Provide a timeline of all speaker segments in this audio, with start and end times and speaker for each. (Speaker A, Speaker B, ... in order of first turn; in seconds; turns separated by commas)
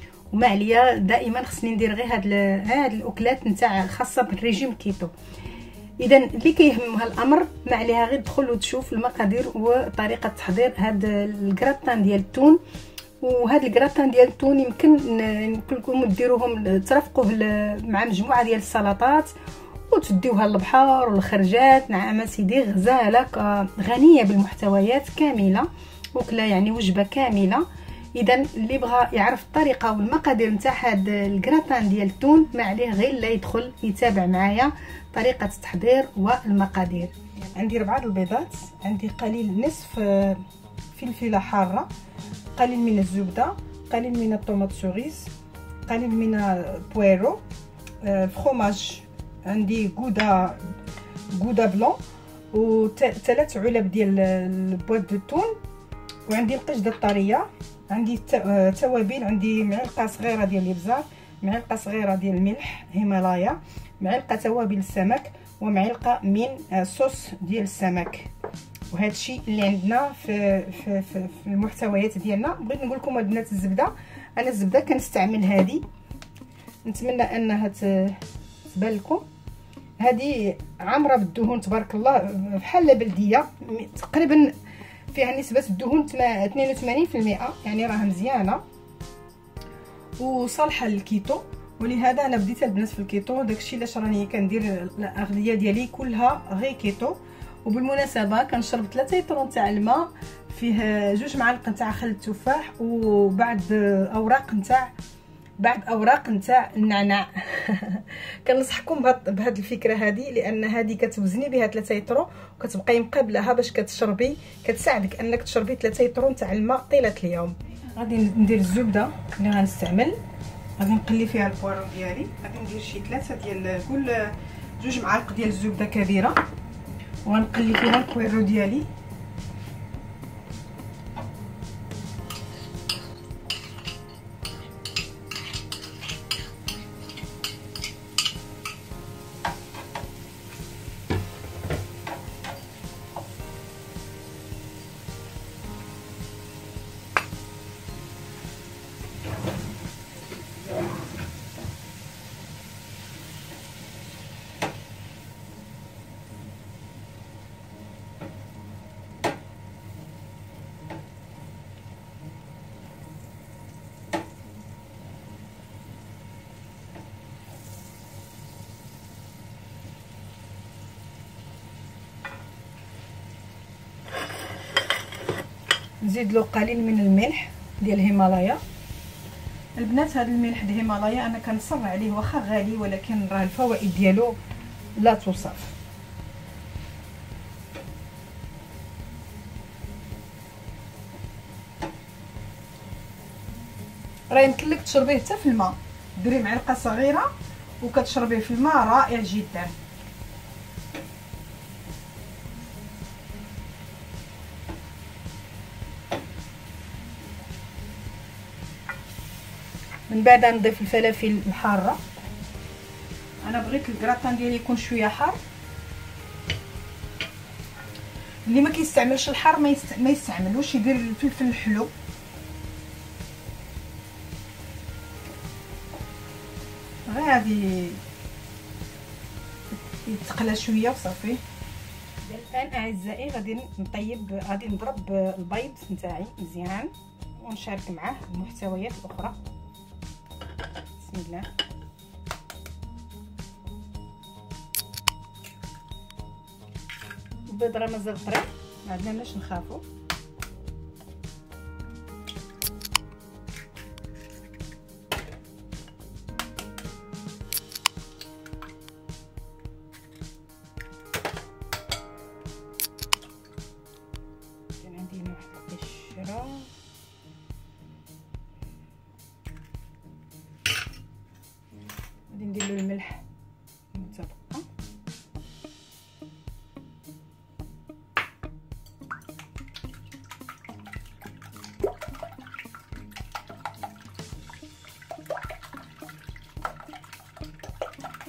Speaker A: 0.3-5.1, Speaker A: 6.0-12.6, Speaker A: 13.2-19.3, Speaker A: 19.9-41.9, Speaker A: 42.5-45.3, Speaker A: 45.9-47.4, Speaker A: 48.0-50.7, Speaker A: 51.3-52.0, Speaker A: 52.5-55.6, Speaker A: 56.2-68.3, Speaker A: 68.9-75.8, Speaker A: 76.8-79.2, Speaker A: 80.0-84.5, Speaker A: 85.1-88.6, Speaker A: 90.2-104.9, Speaker A: 105.6-120.2, Speaker A: 120.8-126.4, Speaker A: 127.2-128.9, Speaker A: 176.0-178.6, Speaker A: 179.8-184.4, Speaker A: 185.0-185.7, Speaker A: 194.3-199.7, Speaker A: 210.1-212.0, Speaker A: 213.4-215.4, Speaker A: 218.5-221.9, Speaker A: 227.1-228.0, Speaker A: 230.0-231.4, Speaker A: 232.2-239.4, Speaker A: 241.0-241.5, Speaker A: 247.5-249.8, Speaker A: 264.8-266.7, Speaker A: 272.3-273.2, Speaker A: 273.9-274.6